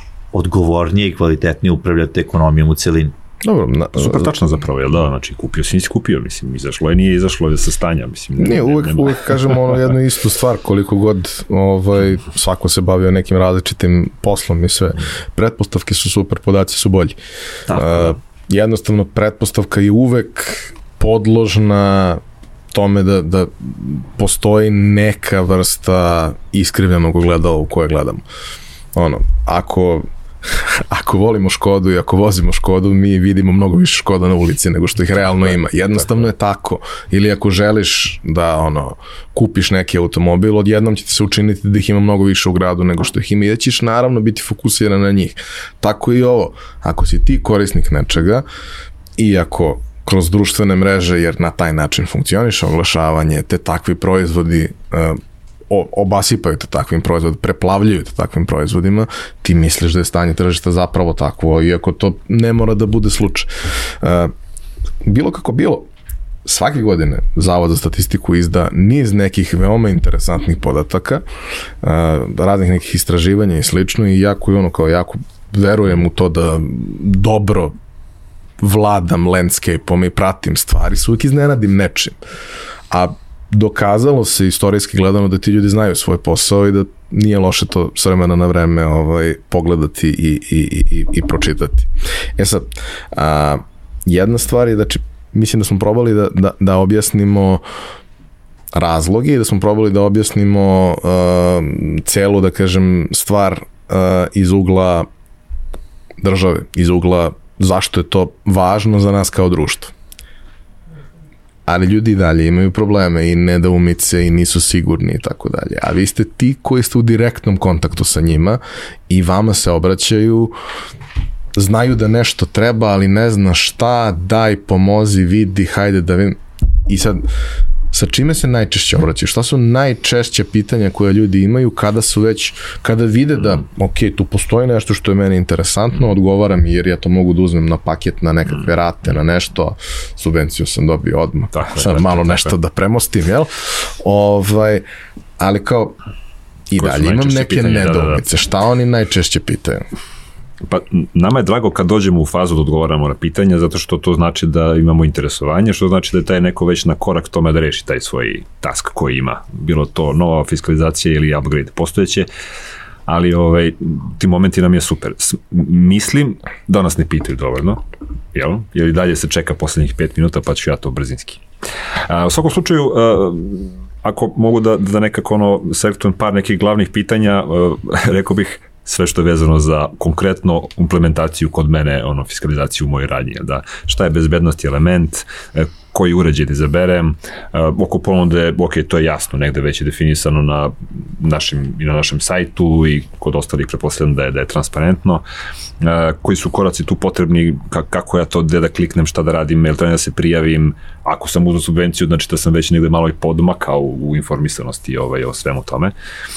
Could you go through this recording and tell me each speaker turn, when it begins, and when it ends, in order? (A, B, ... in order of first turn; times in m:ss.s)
0:00.3-0:03.1 A
0:03.4-0:04.3 B
0:03.9-0:09.8 C
0:08.4-0:17.2 B
0:17.7-0:18.1 A
0:17.7-0:28.2 B
0:28.9-0:48.4 B
0:49.2-0:55.2 B
0:55.7-1:04.3 B
1:05.0-1:05.9 B
1:06.4-1:11.2 B
1:11.8-1:17.7 B
1:18.6-1:22.2 B
1:22.9-1:37.6 B
1:38.7-1:45.1 B
1:46.2-1:49.9 B
1:51.6-2:00.5 B
2:01.6-2:07.2 B
2:07.9-2:24.8 B
2:21.5-2:22.5 C
2:25.4-2:25.9 B
2:26.7-2:29.8 B
2:26.8-2:28.2 C
2:30.6-2:42.3 C
2:43.1-2:47.8 C
2:48.3-2:51.4 C
2:52.1-3:15.2 C
3:15.8-3:25.9 C